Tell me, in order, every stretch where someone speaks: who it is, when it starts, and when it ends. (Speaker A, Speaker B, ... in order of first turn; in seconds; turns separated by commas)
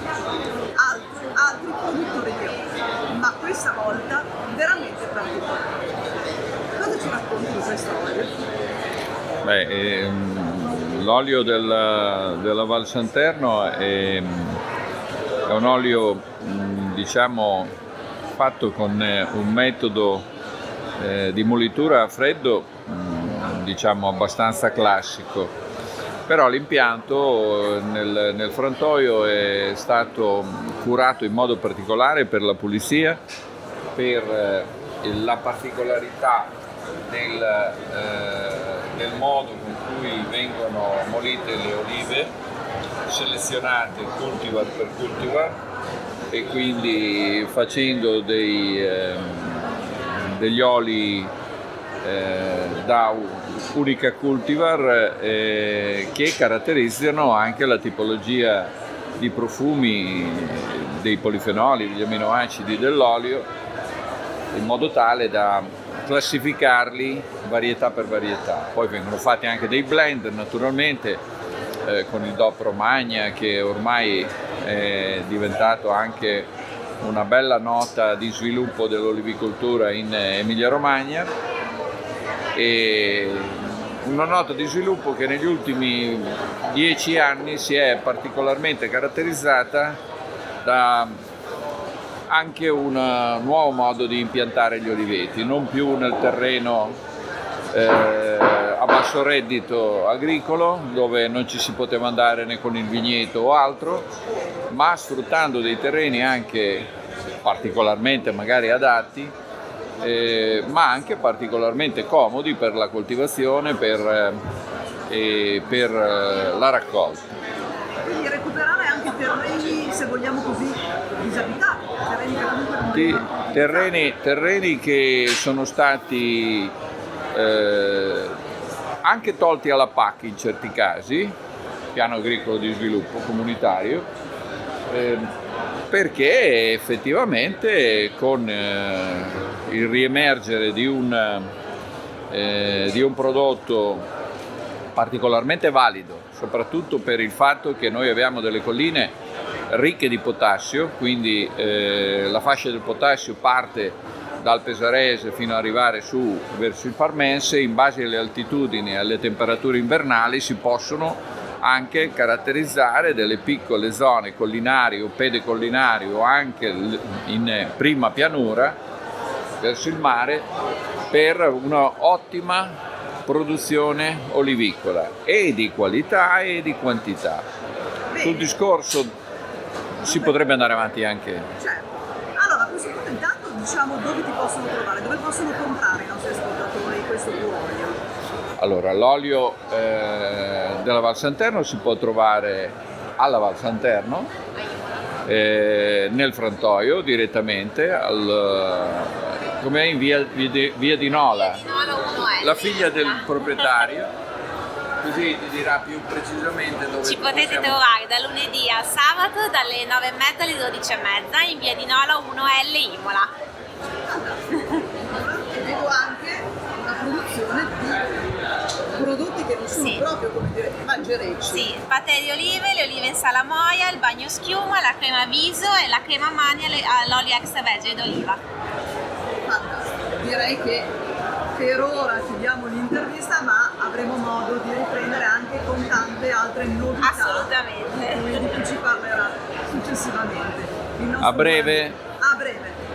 Speaker A: 0.8-5.7, Speaker A: 6.8-8.3, Speaker B: 9.4-14.6, Speaker B: 15.4-17.7, Speaker B: 18.3-20.3, Speaker B: 21.0-25.5, Speaker B: 26.3-33.2, Speaker B: 34.0-36.5, Speaker B: 37.1-42.3, Speaker B: 43.1-45.6, Speaker B: 46.3-51.3, Speaker B: 52.0-63.5, Speaker B: 64.5-71.2, Speaker B: 71.8-76.5, Speaker B: 77.0-81.3, Speaker B: 82.5-90.0, Speaker B: 90.6-91.2, Speaker B: 92.3-97.0, Speaker B: 97.7-104.1, Speaker B: 104.7-106.9, Speaker B: 107.4-109.3, Speaker B: 110.0-114.4, Speaker B: 115.1-117.2, Speaker A: 118.0-123.9, Speaker B: 122.9-126.7, Speaker B: 127.3-128.3, Speaker B: 129.0-131.3, Speaker B: 131.9-134.1, Speaker B: 134.9-135.3, Speaker B: 135.9-141.5, Speaker B: 142.3-144.1, Speaker B: 144.9-149.1, Speaker B: 149.7-168.8, Speaker B: 169.6-170.4, Speaker B: 171.1-177.5, Speaker A: 178.1-178.5, Speaker B: 178.2-179.1, Speaker B: 180.0-181.5, Speaker A: 180.1-180.3, Speaker A: 181.6-188.0, Speaker B: 188.6-194.3, Speaker B: 195.2-201.6, Speaker C: 201.3-203.5, Speaker B: 202.3-204.1, Speaker B: 205.0-207.8, Speaker C: 207.0-213.3, Speaker A: 214.1-214.4, Speaker A: 214.9-218.3, Speaker A: 218.9-221.7, Speaker C: 219.8-220.0, Speaker C: 221.5-228.4, Speaker A: 229.4-230.9, Speaker A: 231.5-237.5, Speaker C: 237.0-238.6, Speaker A: 238.1-242.8, Speaker B: 241.2-242.0